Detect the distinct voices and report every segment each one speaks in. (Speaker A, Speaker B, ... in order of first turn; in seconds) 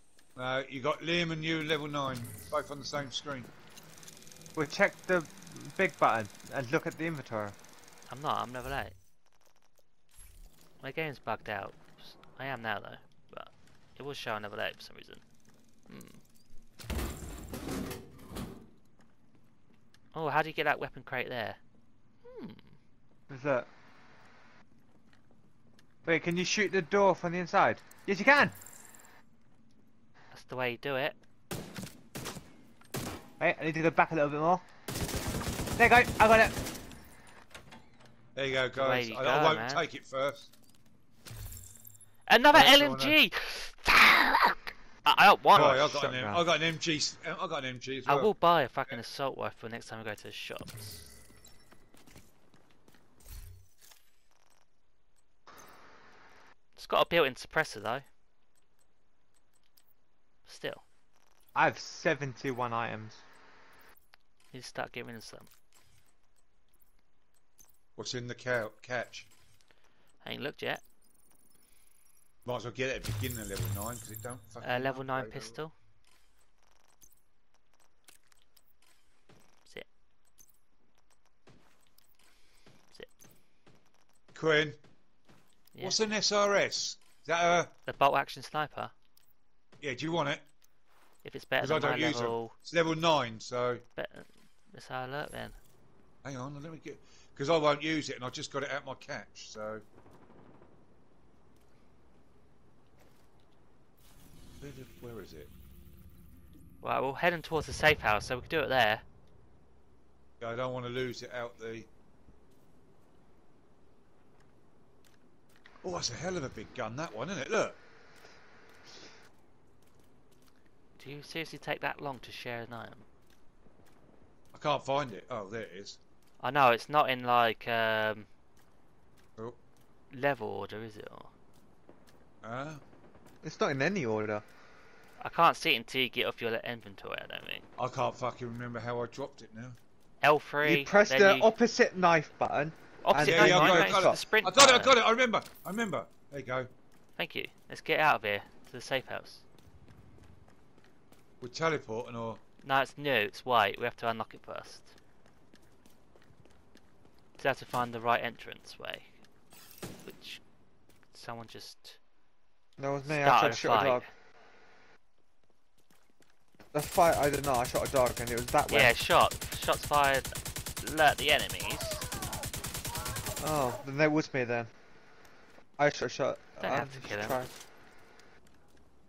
Speaker A: 0.3-3.5, 38.3-40.5, 42.5-43.2, 45.5-48.3, 68.0-69.3, 72.4-75.6, 84.3-84.8, 85.8-87.7, 89.8-90.4, 91.6-93.8, 96.2-99.8, 104.6-105.5, 110.4-111.9, 115.8-117.8, 124.5-126.0, 132.4-132.8, 137.8-139.8, 143.1-146.7, 151.4-152.4
Speaker B: 4.5-7.6, 23.3-23.7, 26.0-28.5, 33.4-34.6, 35.8-36.6, 45.5-46.4, 61.5-63.2, 133.4-134.4, 140.6-144.2, 162.8-164.1, 166.7-168.9, 173.4-174.7, 175.8-177.5
Speaker C: 8.1-8.9, 10.8-15.2, 15.9-16.2, 20.1-21.6, 22.2-22.8, 30.3-31.1, 38.7-39.8, 42.3-45.8, 48.0-51.0, 56.8-58.0, 60.5-60.8, 64.5-65.5, 70.2-70.8, 74.6-75.7, 85.7-86.0, 87.9-88.9, 91.2-92.5, 94.0-95.6, 106.8-109.0, 121.0-123.0, 126.4-128.3, 130.1-131.3, 135.2-137.6, 140.2-141.5, 143.0-145.0, 147.2-149.4, 152.6-154.9, 157.4-159.1, 160.0-160.4, 161.1-162.0, 163.0-164.1, 168.7-172.0, 176.6-177.4